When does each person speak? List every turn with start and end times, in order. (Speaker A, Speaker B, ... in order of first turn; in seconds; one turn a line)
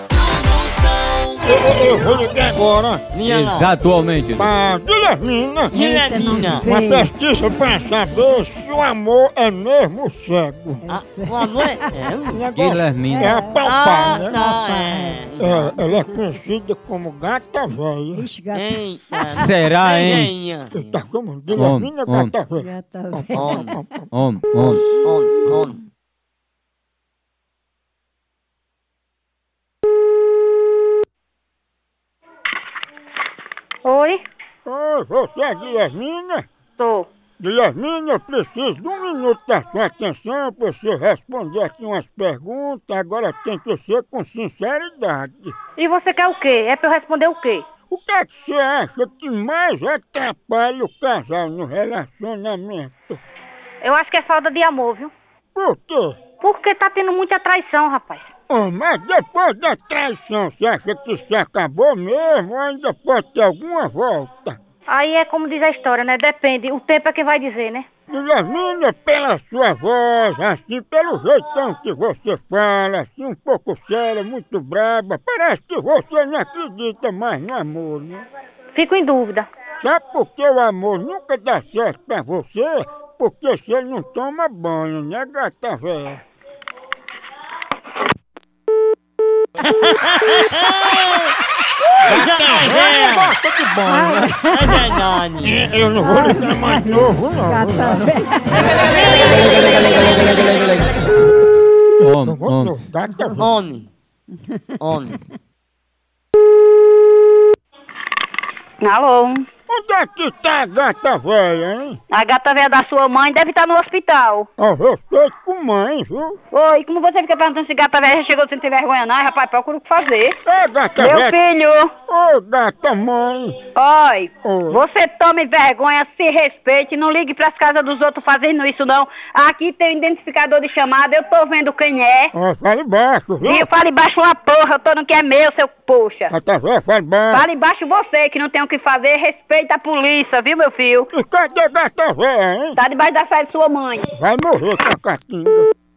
Speaker A: 0.6-1.3
Speaker B: 1.4-3.0
Speaker A: 3.1-3.7
Speaker C: 3.2-4.5
Speaker B: 4.4-5.9
Speaker A: 5.7-6.7
Speaker D: 5.7-7.1
Speaker B: 6.5-10.9
Speaker D: 10.8-12.3
Speaker A: 10.9-12.4
Speaker B: 12.2-14.4
Speaker C: 12.5-13.4
Speaker D: 13.0-13.6
Speaker A: 13.6-15.7
Speaker D: 14.2-15.2
Speaker B: 15.4-18.3
Speaker D: 18.1-19.4
Speaker A: 18.5-21.0
Speaker C: 19.3-20.3
Speaker B: 20.7-24.1
Speaker C: 21.5-22.4
Speaker D: 22.5-23.8
Speaker A: 23.3-23.8
Speaker C: 24.1-24.9
Speaker A: 24.6-25.8
Speaker D: 25.4-25.7
Speaker E: 33.8-34.2
Speaker B: 34.6-36.5
Speaker E: 36.8-37.1
Speaker B: 37.4-45.5
Speaker E: 45.8-47.6
Speaker B: 47.9-53.2
Speaker E: 53.8-55.1
Speaker B: 55.5-56.2
Speaker E: 56.4-58.3
Speaker B: 58.5-64.6
Speaker E: 64.9-67.8
Speaker B: 68.1-78.2
Speaker E: 78.7-79.5
Speaker B: 79.8-86.2
Speaker A: 89.7-91.3
Speaker B: 91.8-94.4
Speaker A: 92.0-93.3
Speaker D: 93.9-94.6
Speaker A: 94.5-95.5
Speaker B: 95.4-98.1
Speaker D: 96.1-98.8
Speaker A: 98.7-99.5
Speaker C: 102.0-102.7
Speaker B: 102.2-103.5
Speaker A: 103.4-103.9
Speaker A: 104.8-105.2
Speaker E: 108.8-109.4
Speaker B: 109.7-112.0
Speaker E: 112.1-114.5
Speaker B: 114.6-116.4
Speaker E: 116.5-120.4
Speaker B: 120.4-121.3
Speaker E: 121.0-121.9
Speaker B: 122.1-123.6
Speaker E: 123.7-132.3
Speaker B: 124.4-124.8
Speaker B: 132.3-133.7
Speaker E: 133.4-136.3
Speaker B: 136.3-137.4
Speaker E: 137.3-141.1
Speaker B: 141.1-142.8
Speaker E: 142.8-144.1
Speaker B: 144.1-145.7